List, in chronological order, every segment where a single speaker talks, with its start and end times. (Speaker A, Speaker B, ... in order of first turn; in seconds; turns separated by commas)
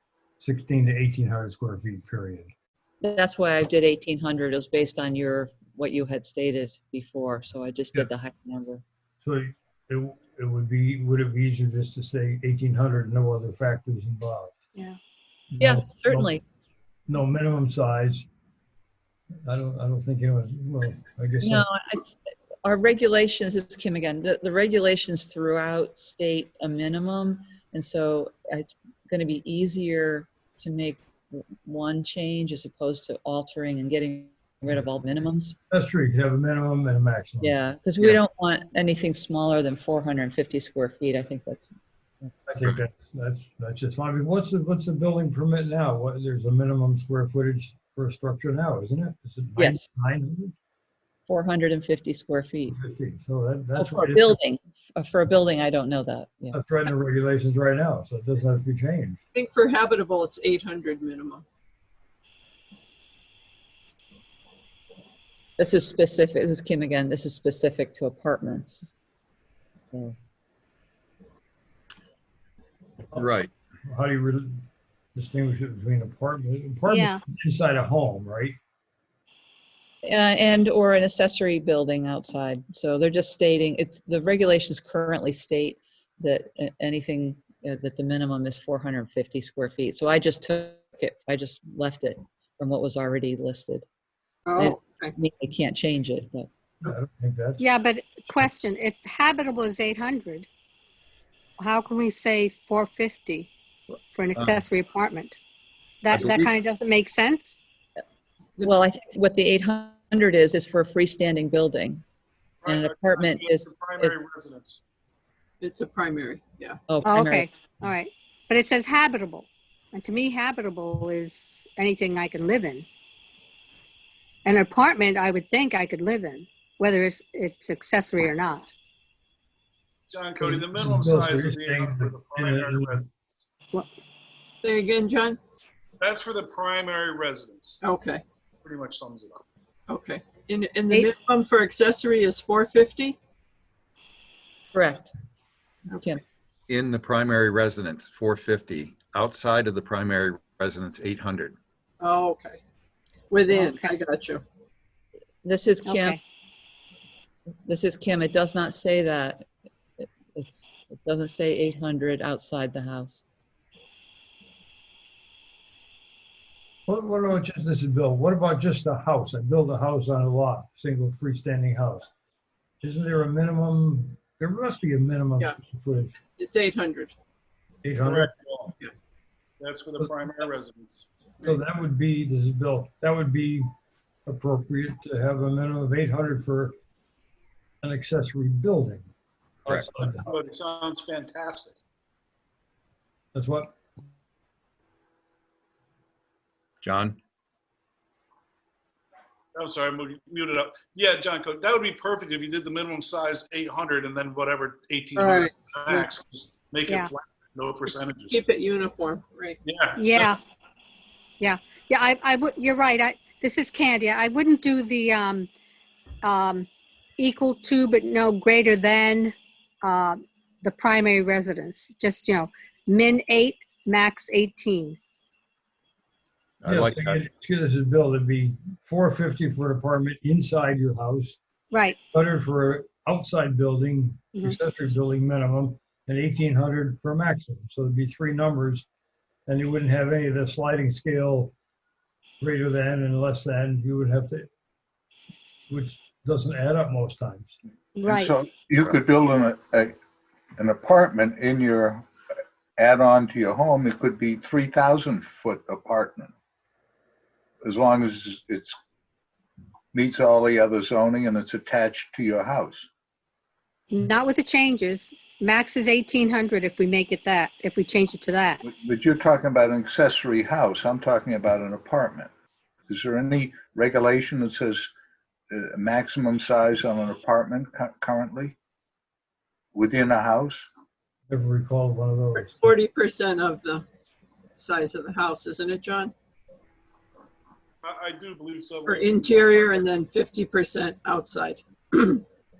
Speaker A: 0.4-2.5, Speaker B: 3.0-8.8, Speaker A: 9.2-14.6, Speaker A: 15.5-16.3, Speaker B: 15.6-16.4, Speaker A: 17.1-18.3, Speaker A: 19.4-21.7, Speaker B: 21.4-35.5, Speaker A: 35.7-37.5, Speaker B: 37.4-42.5, Speaker A: 42.5-50.5, Speaker B: 49.5-49.8, Speaker B: 51.3-52.8, Speaker A: 52.7-54.4, Speaker B: 53.8-56.6, Speaker A: 56.5-59.2, Speaker C: 59.3-61.4, Speaker B: 65.6-68.9, Speaker D: 73.2-73.5, Speaker A: 73.9-78.6, Speaker E: 76.9-77.2, Speaker B: 80.0-93.8, Speaker C: 94.5-95.1, Speaker B: 94.5-96.5, Speaker A: 96.8-97.7, Speaker E: 97.6-100.5, Speaker E: 101.6-103.5, Speaker E: 104.1-105.4, Speaker D: 104.3-104.6, Speaker E: 106.0-107.6, Speaker D: 106.1-106.5, Speaker B: 108.6-112.0, Speaker F: 112.6-114.8, Speaker B: 112.7-114.1, Speaker C: 115.6-116.8, Speaker B: 116.9-117.5, Speaker E: 117.0-122.8, Speaker E: 124.4-128.7, Speaker F: 130.1-133.1, Speaker A: 130.4-133.1, Speaker C: 134.6-135.4, Speaker F: 136.0-137.8, Speaker C: 137.8-138.2, Speaker F: 138.6-139.4, Speaker C: 139.9-143.2, Speaker B: 144.7-145.1, Speaker B: 145.9-146.2, Speaker D: 146.7-151.6, Speaker C: 152.0-152.6, Speaker C: 153.3-154.4, Speaker E: 153.5-153.9, Speaker B: 155.4-156.2, Speaker E: 155.8-156.2, Speaker B: 157.7-159.5, Speaker B: 160.0-163.2, Speaker A: 166.9-172.1, Speaker A: 172.8-176.1, Speaker C: 176.4-177.1, Speaker A: 177.8-178.3, Speaker F: 178.0-178.8, Speaker F: 179.6-181.1, Speaker A: 181.4-183.7, Speaker A: 184.2-186.7, Speaker A: 187.8-189.1, Speaker A: 189.6-190.3, Speaker F: 190.2-191.7, Speaker A: 193.3-193.8, Speaker D: 196.8-197.2, Speaker F: 199.5-208.4, Speaker C: 205.2-206.1, Speaker C: 208.3-209.6, Speaker F: 209.6-210.3, Speaker E: 209.9-210.4, Speaker E: 211.4-215.5, Speaker E: 216.2-216.7, Speaker E: 217.2-225.0, Speaker D: 226.6-227.2, Speaker A: 226.6-231.4, Speaker E: 231.7-232.0, Speaker A: 232.1-238.8, Speaker A: 239.5-241.5, Speaker A: 242.4-244.5, Speaker A: 245.7-247.5, Speaker E: 247.9-248.3, Speaker G: 248.1-249.9, Speaker G: 250.6-252.1, Speaker G: 252.8-256.3, Speaker G: 257.6-258.8, Speaker G: 259.9-262.9, Speaker E: 263.9-268.6, Speaker G: 268.6-272.3, Speaker G: 272.9-274.9, Speaker G: 275.5-278.5, Speaker G: 279.7-280.7, Speaker A: 281.3-282.7, Speaker C: 282.4-283.8, Speaker C: 284.6-286.1, Speaker F: 287.8-289.9, Speaker C: 288.9-292.2